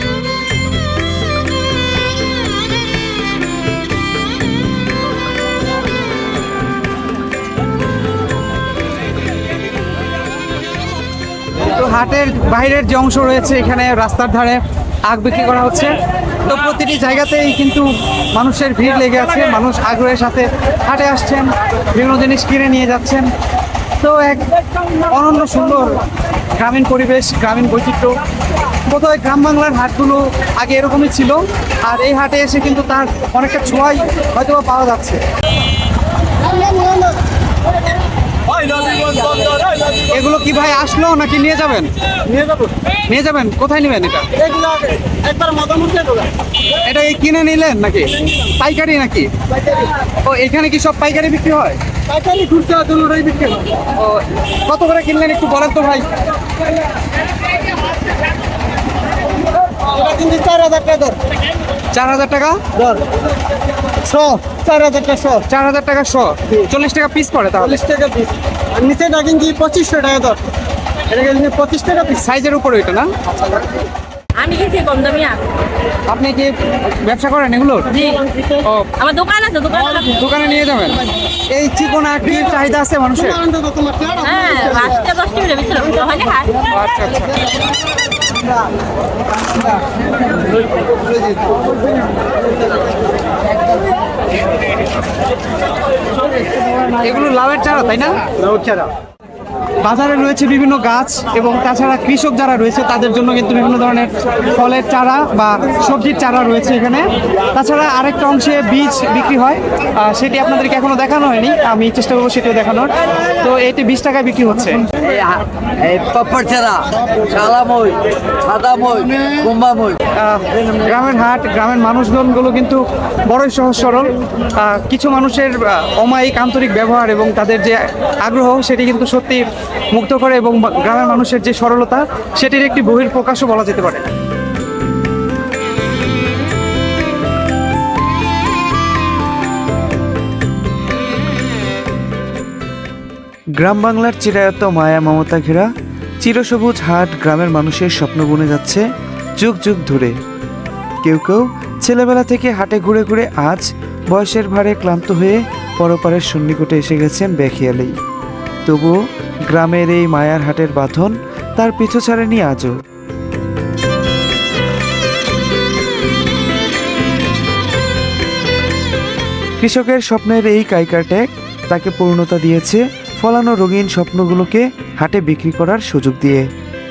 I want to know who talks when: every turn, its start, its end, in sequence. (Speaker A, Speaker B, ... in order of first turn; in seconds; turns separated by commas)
Speaker A: 11.7-15.9, Speaker A: 16.4-23.3, Speaker A: 24.0-24.5, Speaker A: 25.1-26.0, Speaker A: 26.6-28.2, Speaker A: 28.9-35.2, Speaker B: 36.5-37.1, Speaker B: 38.6-39.6, Speaker A: 40.1-41.9, Speaker B: 42.3-42.7, Speaker A: 43.1-44.3, Speaker B: 44.4-46.3, Speaker A: 46.9-49.3, Speaker A: 50.2-51.8, Speaker B: 52.1-53.7, Speaker A: 53.9-56.1, Speaker B: 59.8-61.2, Speaker A: 61.9-62.6, Speaker B: 62.8-63.0, Speaker B: 64.0-65.4, Speaker A: 65.5-67.8, Speaker B: 67.7-70.4, Speaker B: 71.1-72.1, Speaker A: 72.0-73.1, Speaker C: 74.4-75.4, Speaker A: 76.1-77.9, Speaker C: 77.9-78.2, Speaker A: 78.6-78.9, Speaker C: 79.0-80.0, Speaker A: 80.0-83.5, Speaker C: 84.1-86.6, Speaker A: 86.7-87.3, Speaker B: 91.1-91.5, Speaker A: 96.9-98.2, Speaker B: 98.4-98.9, Speaker A: 99.8-114.9, Speaker D: 115.0-120.0, Speaker A: 120.2-134.1, Speaker E: 143.6-145.7, Speaker E: 146.2-148.8, Speaker E: 149.4-150.1, Speaker E: 151.0-158.0, Speaker E: 158.7-159.0, Speaker E: 159.5-162.8, Speaker E: 169.6-176.5